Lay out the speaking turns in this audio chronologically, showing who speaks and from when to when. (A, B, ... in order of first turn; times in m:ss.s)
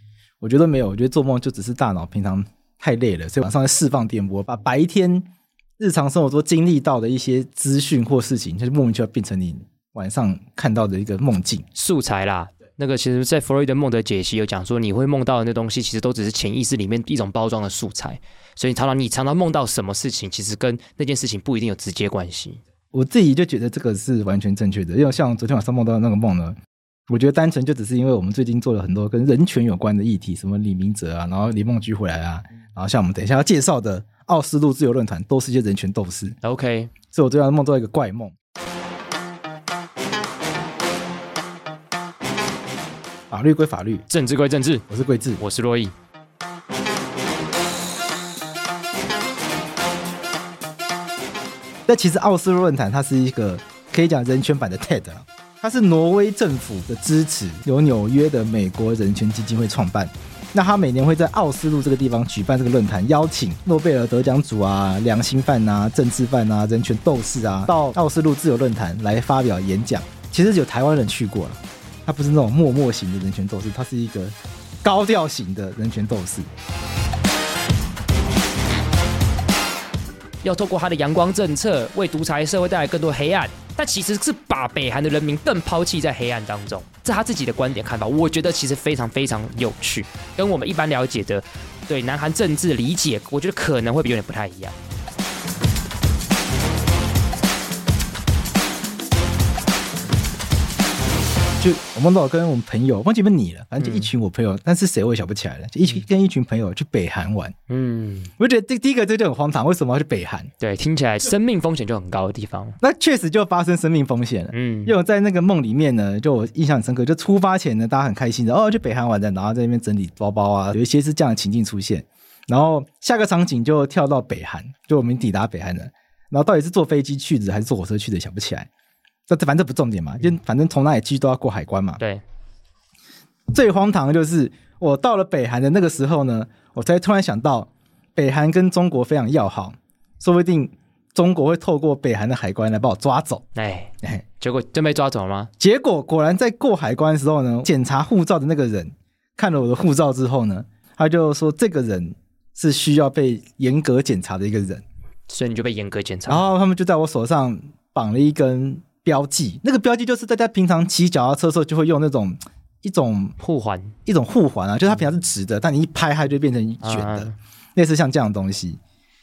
0:00.4-0:05.2 A
0:05.8-0:11.6 A
0:11.7-0:22.6 B
0:22.9-0:26.6 A
0:27.1-0:36.4 A
0:36.4-0:36.9 B
0:37.1-0:38.3 A
0:43.3-0:44.0 A
0:44.1-0:44.9 B
0:44.9-0:45.4 A
0:45.4-0:45.9 B
0:51.9-1:16.5 A
1:20.4-1:34.8 B
1:41.6-1:47.5 A
1:43.8-1:44.1 B
1:47.7-1:48.3 B
1:48.4-1:50.5 A
1:50.6-1:52.8 B
1:52.8-2:08.7 A
1:54.5-1:54.9 B
2:09.3-2:12.0 A
2:13.5-2:23.4 A
2:23.5-2:25.5 B
2:25.6-2:34.8 A
2:35.3-2:36.5 B
2:36.3-2:43.3 A
2:43.4-2:44.0 B
2:44.0-2:48.8 A
2:46.8-2:47.3 B